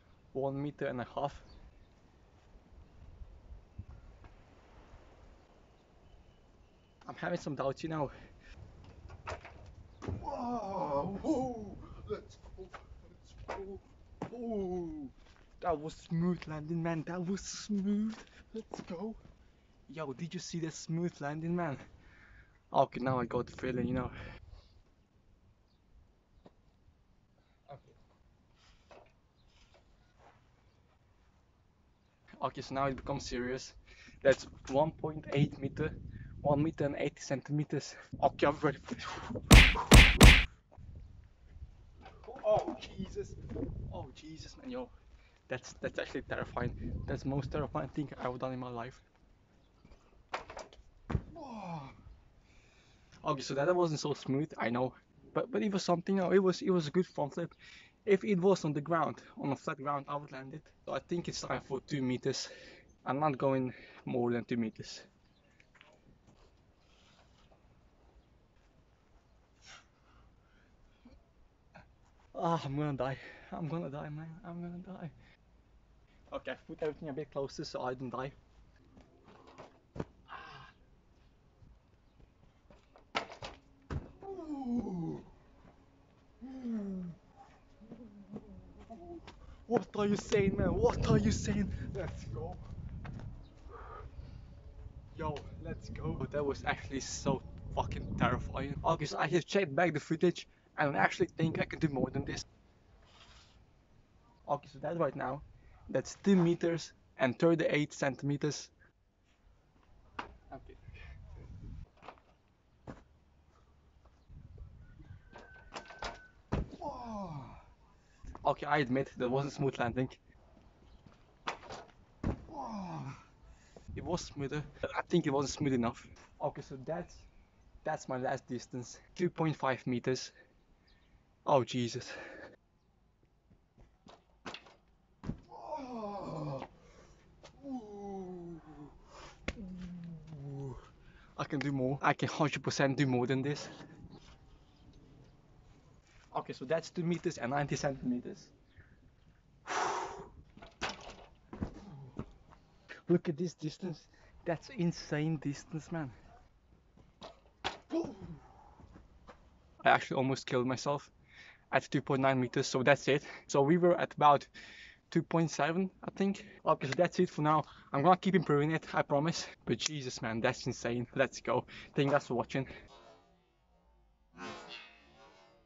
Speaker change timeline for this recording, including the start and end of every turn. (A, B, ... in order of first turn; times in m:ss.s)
0:00.3-0:01.4 A
0:07.0-0:08.1 A
0:10.2-0:19.2 A
0:19.9-0:21.8 A
0:22.7-0:24.1 A
0:27.7-0:27.9 A
0:32.4-0:39.4 A
0:42.2-0:44.9 A
0:45.5-0:49.0 A
0:51.3-0:51.9 A
0:53.2-1:05.1 A
1:12.3-1:15.1 A
1:16.3-1:18.4 A
1:20.3-1:20.7 A
1:24.2-1:25.2 A
1:26.4-1:27.1 A
1:28.9-1:32.6 A
1:35.1-1:42.4 A
1:44.4-1:48.7 A
1:50.5-1:50.8 A
1:56.8-1:57.5 A
1:58.4-2:00.2 A
2:02.6-2:03.1 A
2:03.9-2:07.2 A
2:07.8-2:10.3 A
2:11.4-2:12.2 A
2:15.7-2:16.6 A
2:17.7-2:18.6 A
2:19.7-2:20.7 A
2:21.4-2:23.8 A
2:26.3-2:28.5 A
2:29.7-2:30.0 A
2:33.1-2:36.1 A
2:39.8-2:41.1 A
2:41.7-2:44.5 A
2:45.1-2:52.7 A